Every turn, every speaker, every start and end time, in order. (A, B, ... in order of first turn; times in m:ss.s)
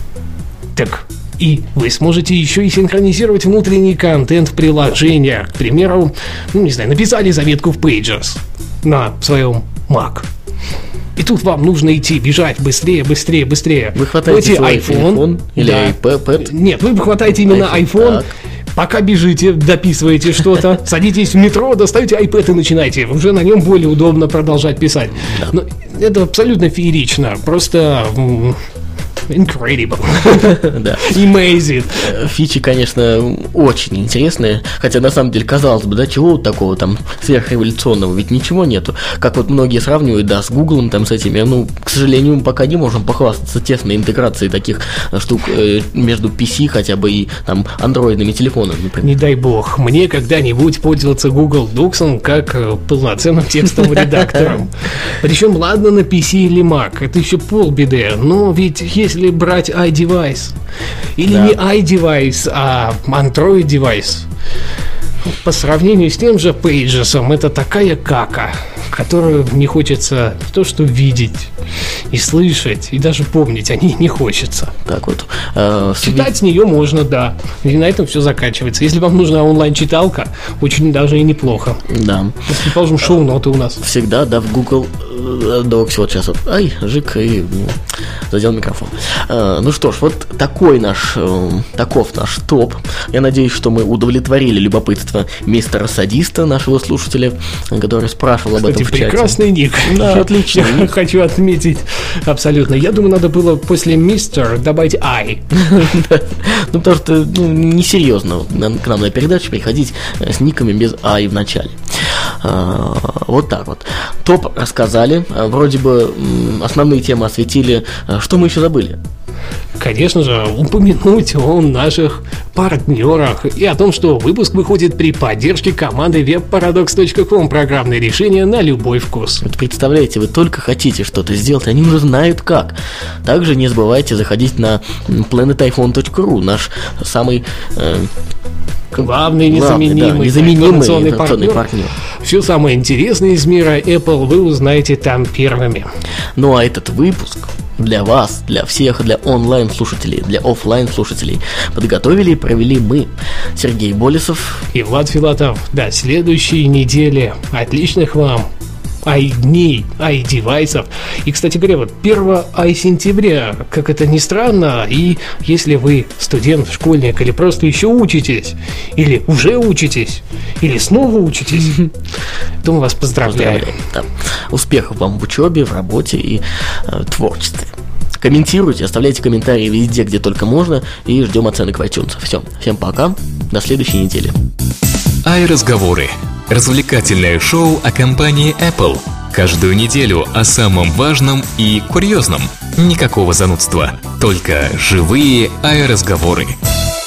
0:00.7-0:10.3 A
0:11.2-0:18.2 A
0:13.9-0:16.5 B
0:17.3-0:18.3 B
0:18.7-0:28.6 A
0:25.2-0:25.5 B
0:29.3-0:32.1 A
0:30.3-0:31.2 B
0:31.9-0:49.2 B
0:49.0-1:00.6 A
0:53.8-0:54.6 B
1:01.2-1:04.3 A
1:01.2-1:01.6 B
1:05.3-1:11.5 A
1:12.1-1:14.7 A
1:14.8-1:16.3 B
1:16.0-1:21.8 A
1:21.9-1:22.5 B
1:22.5-1:23.8 A
1:23.8-1:40.9 B
1:38.6-1:45.4 A
1:45.5-1:59.0 B
1:59.8-2:09.4 A
2:09.4-2:18.1 B
2:18.9-2:21.6 A
2:19.0-2:21.9 B
2:22.2-2:25.9 A
2:26.4-2:34.6 B
2:34.7-2:38.5 A
2:39.0-2:51.9 A
2:52.6-2:53.7 A
2:53.2-3:04.4 B
3:05.2-3:16.5 C